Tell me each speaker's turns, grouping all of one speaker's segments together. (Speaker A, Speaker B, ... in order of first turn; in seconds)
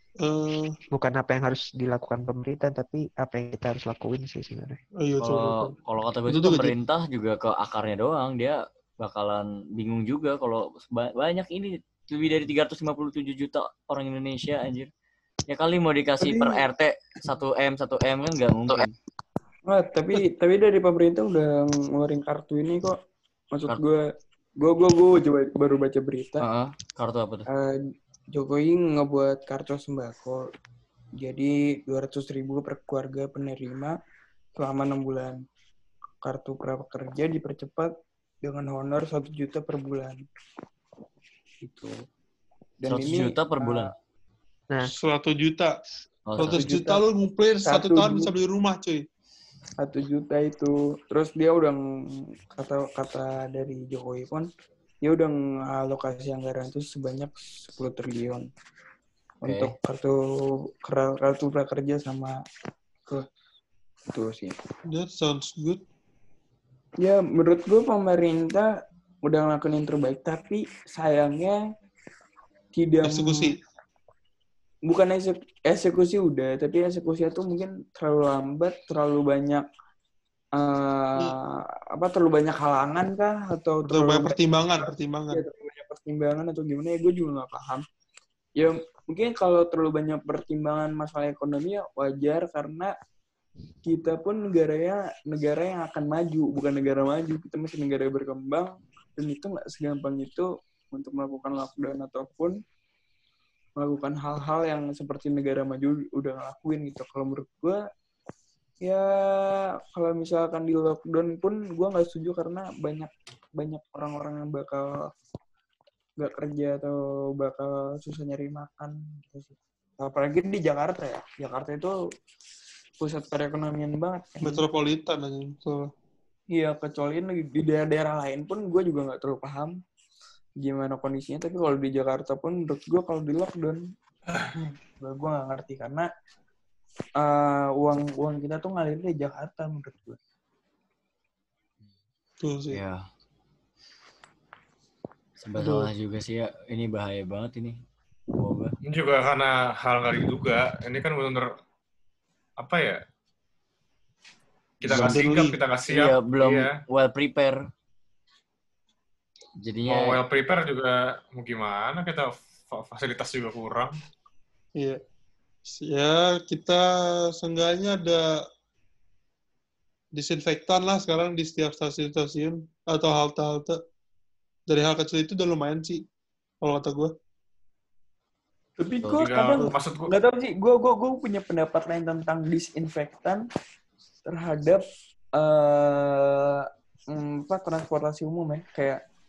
Speaker A: 0.2-0.7, 5.0-5.8, 6.3-6.8, 44.8-45.7, 46.4-49.0, 64.9-65.8, 73.0-73.6, 83.8-85.4, 124.4-125.8, 142.4-142.8, 145.6-145.9, 154.9-155.6, 165.7-168.3, 170.1-173.8, 174.7-176.0, 176.6-177.1
Speaker B: 0.9-4.8
Speaker C: 5.2-14.9, 15.5-18.9, 26.4-27.5, 41.6-42.0, 42.9-43.9, 46.3-46.7, 59.4-59.7, 142.7-143.1, 145.4-147.8, 148.4-148.8, 154.9-155.2, 155.9-157.6, 159.6-160.2
Speaker D: 16.2-16.6, 19.7-23.0, 23.5-24.0, 24.6-26.4, 27.5-30.4, 31.2-34.0, 34.6-35.4, 36.2-40.3, 42.8-43.9, 46.5-47.0, 47.6-48.3, 49.8-54.5, 55.0-58.5, 59.4-60.2, 60.8-62.4, 64.1-64.6, 67.0-68.7, 69.2-71.6, 72.7-73.5, 74.9-79.7, 80.6-84.4, 85.3-87.8, 88.6-92.9, 93.8-102.6, 103.8-107.8, 108.8-115.1, 116.2-121.9, 123.0-124.6, 126.5-129.7, 130.6-133.8, 134.6-136.1, 137.2-140.2, 178.8-183.4, 184.3-184.8, 185.4-189.0
Speaker E: 148.8-151.5, 152.6-153.0, 154.8-156.7, 159.9-163.9, 179.1-180.1